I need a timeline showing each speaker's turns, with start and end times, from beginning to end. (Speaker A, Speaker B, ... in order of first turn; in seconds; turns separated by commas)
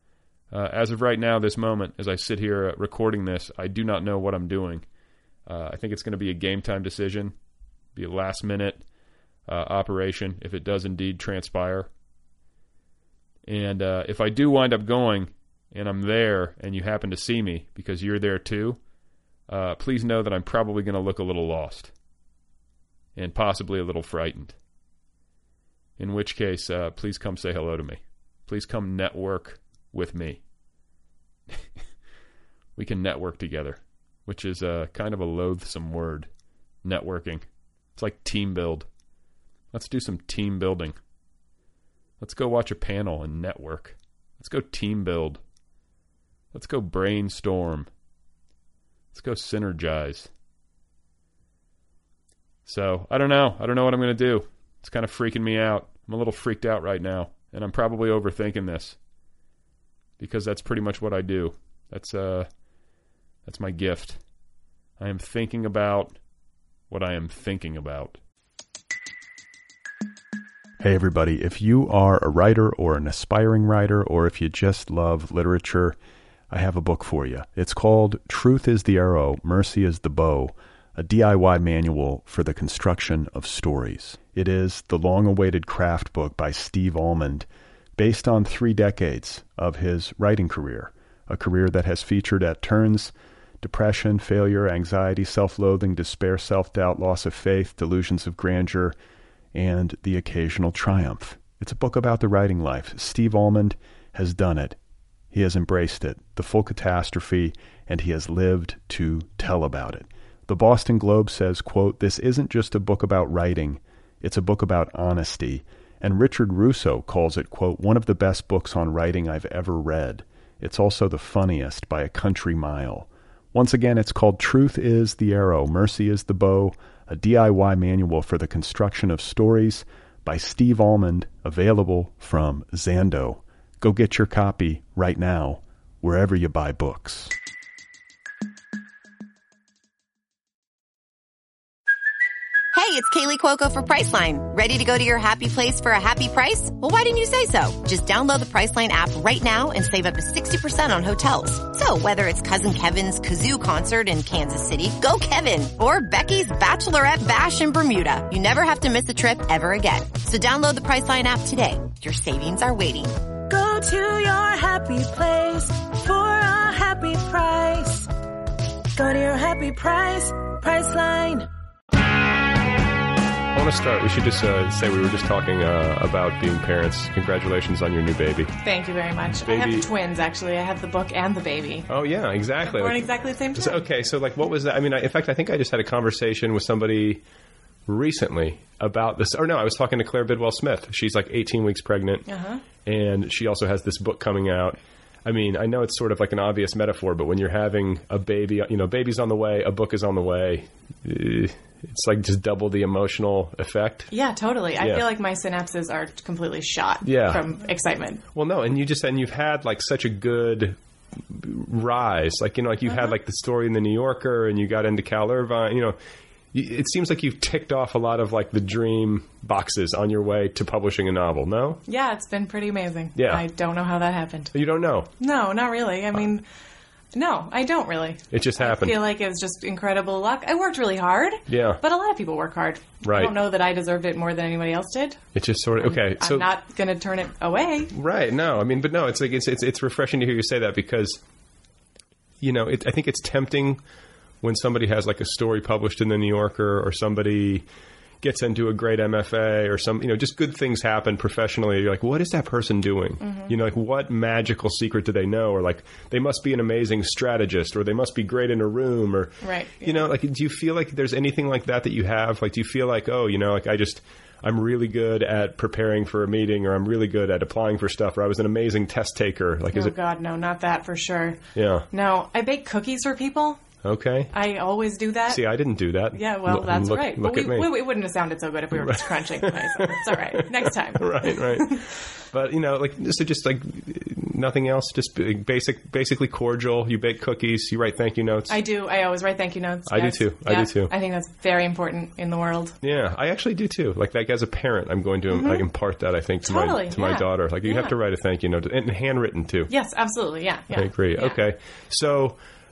Speaker A: 0.5-4.8, Speaker A: 5.5-7.3, Speaker A: 7.9-8.8, Speaker A: 9.5-11.9, Speaker A: 13.4-18.8, Speaker A: 19.5-21.9, Speaker A: 23.1-24.5, Speaker A: 26.0-30.4, Speaker A: 32.8-36.3, Speaker A: 36.8-37.4, Speaker A: 38.0-38.9, Speaker A: 39.7-41.0, Speaker A: 42.2-45.4, Speaker A: 46.5-47.9, Speaker A: 49.1-50.3, Speaker A: 52.6-59.0, Speaker A: 60.2-62.5, Speaker A: 63.5-64.2, Speaker A: 65.0-66.2, Speaker A: 66.9-68.2, Speaker B: 70.8-76.0, Speaker B: 76.5-98.9, Speaker B: 99.5-104.8, Speaker B: 105.3-137.3, Speaker C: 142.7-163.2, Speaker D: 163.5-168.1, Speaker D: 168.9-171.5, Speaker E: 173.5-178.5, Speaker F: 178.6-181.9, Speaker E: 179.4-179.9, Speaker E: 181.9-187.2, Speaker F: 182.6-183.8, Speaker E: 187.9-192.2, Speaker F: 192.3-192.6, Speaker E: 192.8-204.1, Speaker F: 204.1-208.2, Speaker E: 204.8-205.0, Speaker E: 207.0-207.4, Speaker E: 208.3-210.8, Speaker E: 211.3-216.0, Speaker F: 212.9-213.1, Speaker E: 216.5-221.8, Speaker F: 221.9-224.5, Speaker E: 223.2-223.4, Speaker E: 224.5-225.1, Speaker F: 225.2-226.4, Speaker F: 227.1-237.9, Speaker E: 228.3-229.0, Speaker E: 231.5-231.8, Speaker E: 233.0-233.3, Speaker E: 235.3-236.5, Speaker E: 237.9-241.2, Speaker E: 242.4-243.8, Speaker E: 244.4-247.6, Speaker E: 248.2-269.9, Speaker F: 253.2-253.5, Speaker F: 259.4-260.1, Speaker F: 269.7-273.6, Speaker E: 271.5-271.9, Speaker E: 273.8-274.3, Speaker F: 274.3-275.4, Speaker E: 275.3-277.7, Speaker F: 276.1-281.9, Speaker E: 278.7-288.6, Speaker F: 288.5-292.8, Speaker E: 289.9-290.9, Speaker E: 292.8-299.7, Speaker F: 295.3-295.6, Speaker F: 296.4-297.9, Speaker F: 299.7-301.4, Speaker E: 300.7-302.4